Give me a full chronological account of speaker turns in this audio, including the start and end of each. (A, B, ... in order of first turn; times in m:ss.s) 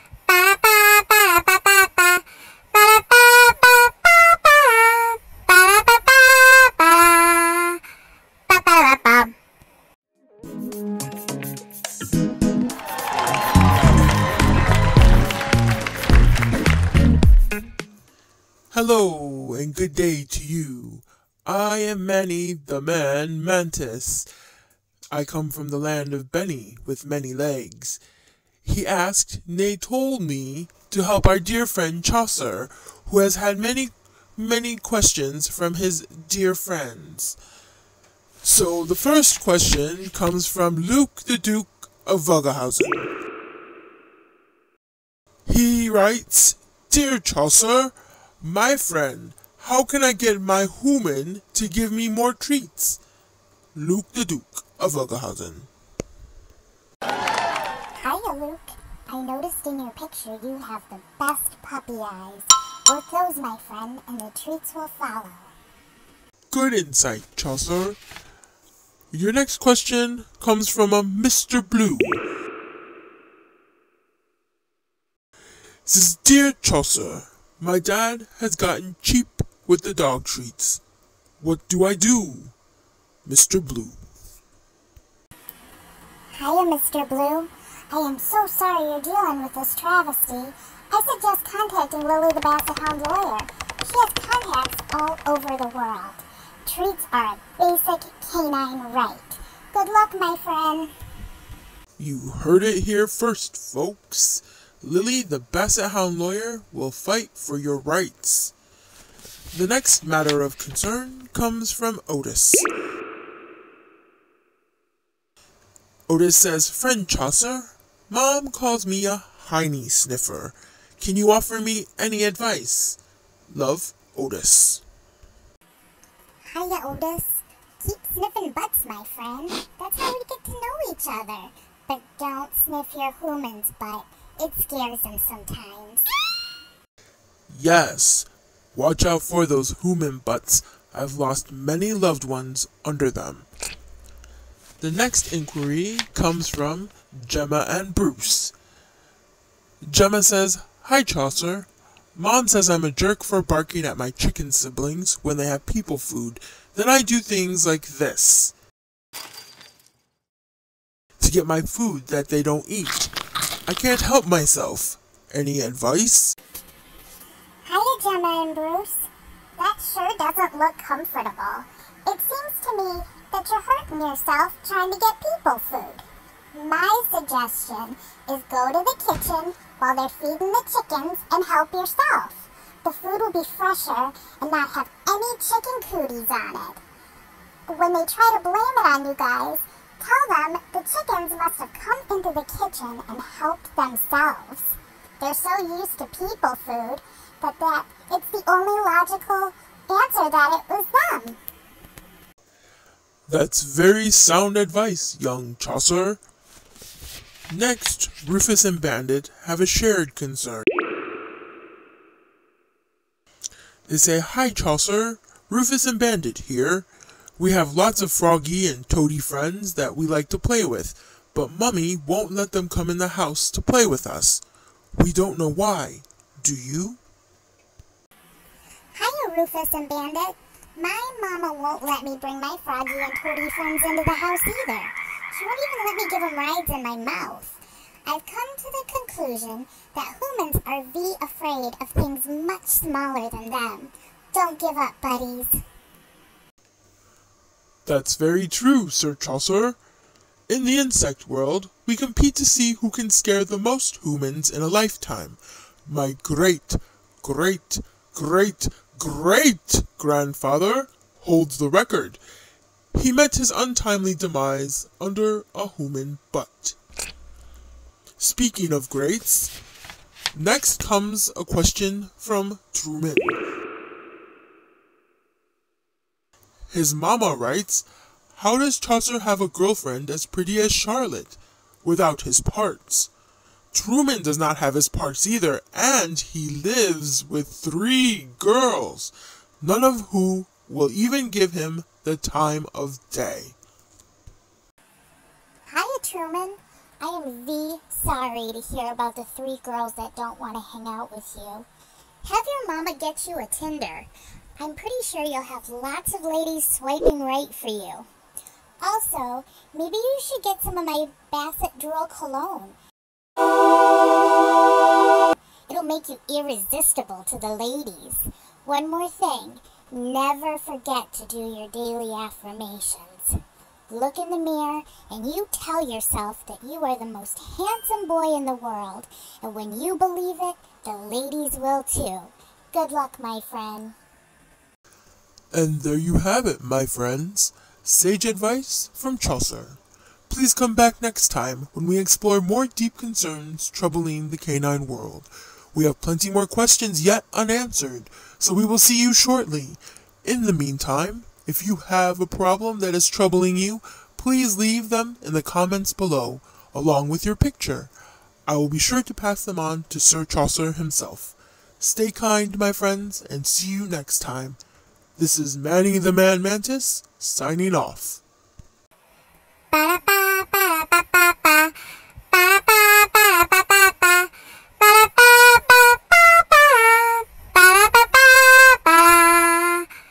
0:00.3-0:07.8 A
0:08.5-0:09.3 A
0:18.7-0:24.3 B
0:25.1-0:28.0 B
0:28.6-0:37.4 B
0:38.4-0:43.1 B
0:45.4-0:53.0 B
0:53.7-0:55.7 B
0:58.0-1:05.5 A
1:06.5-1:08.0 B
1:09.1-1:12.2 B
1:15.8-1:20.8 B
1:21.4-1:22.5 B
1:23.2-1:24.0 B
1:26.4-1:40.9 A
1:42.0-1:48.5 B
1:49.5-1:52.7 B
1:56.1-2:04.8 B
2:06.5-2:16.0 A
2:17.5-2:23.5 B
2:24.8-2:28.5 B
2:29.8-2:38.5 B
2:41.2-2:43.1 B
2:43.7-2:46.4 B
2:47.6-3:06.8 A
3:07.7-3:21.4 A
3:23.3-3:26.2 B
3:27.5-3:30.7 B
3:33.9-3:44.4 B
3:44.9-3:47.0 B
3:48.9-4:05.6 A
4:07.8-4:09.8 B
4:10.5-4:22.2 B
4:22.9-4:26.8 B
4:28.2-4:29.6 B
4:30.3-4:33.4 B
4:36.7-4:43.1 B
4:43.7-4:53.6 B
4:55.7-5:01.7 A
5:02.2-5:08.1 A
5:08.8-5:12.8 A
5:15.7-5:34.0 A
5:35.5-5:57.9 B
5:58.4-6:04.6 B
6:05.2-6:08.2 B
6:09.7-6:11.8 A
6:12.3-6:19.9 A